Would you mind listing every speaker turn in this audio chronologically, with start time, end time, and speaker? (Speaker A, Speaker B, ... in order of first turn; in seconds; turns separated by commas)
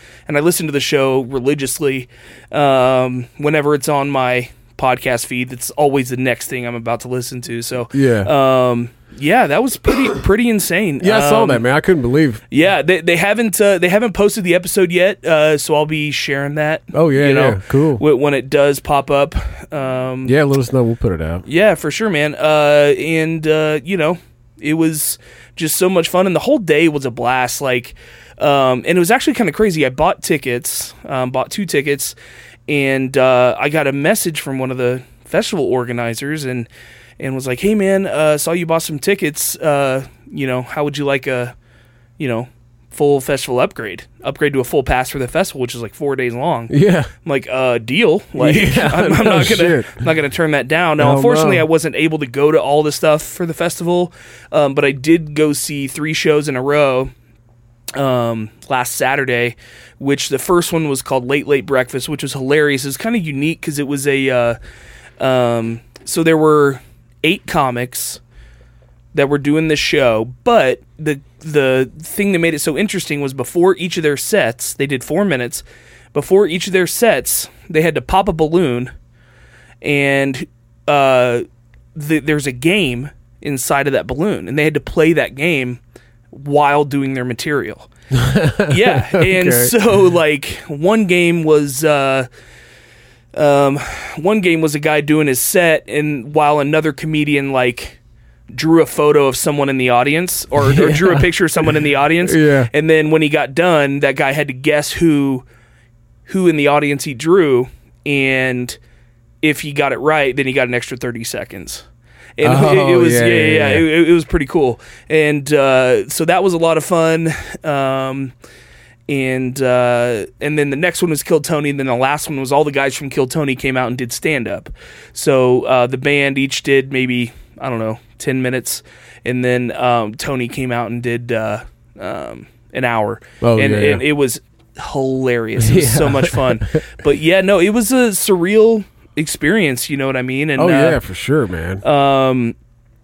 Speaker A: 0.3-11.6, Speaker B: 7.9-8.3, Speaker B: 11.0-12.4, Speaker A: 12.5-20.3, Speaker B: 16.9-18.0, Speaker B: 20.2-21.4, Speaker A: 21.4-32.1, Speaker A: 32.7-36.7, Speaker A: 37.2-41.5, Speaker A: 42.2-57.1, Speaker B: 46.7-47.1, Speaker B: 48.4-50.1, Speaker B: 51.0-51.6, Speaker A: 57.9-64.6, Speaker A: 65.2-68.2, Speaker A: 69.1-78.9, Speaker A: 79.8-85.8, Speaker A: 86.3-87.9, Speaker B: 88.1-89.7, Speaker A: 88.7-92.3, Speaker A: 93.3-98.0, Speaker A: 98.5-105.4, Speaker B: 100.6-102.7, Speaker A: 106.3-108.8, Speaker A: 109.4-111.8, Speaker A: 112.4-118.3, Speaker B: 112.4-113.8, Speaker A: 119.1-141.0, Speaker B: 133.4-134.0, Speaker B: 135.6-136.8, Speaker B: 140.6-141.8, Speaker A: 141.8-142.5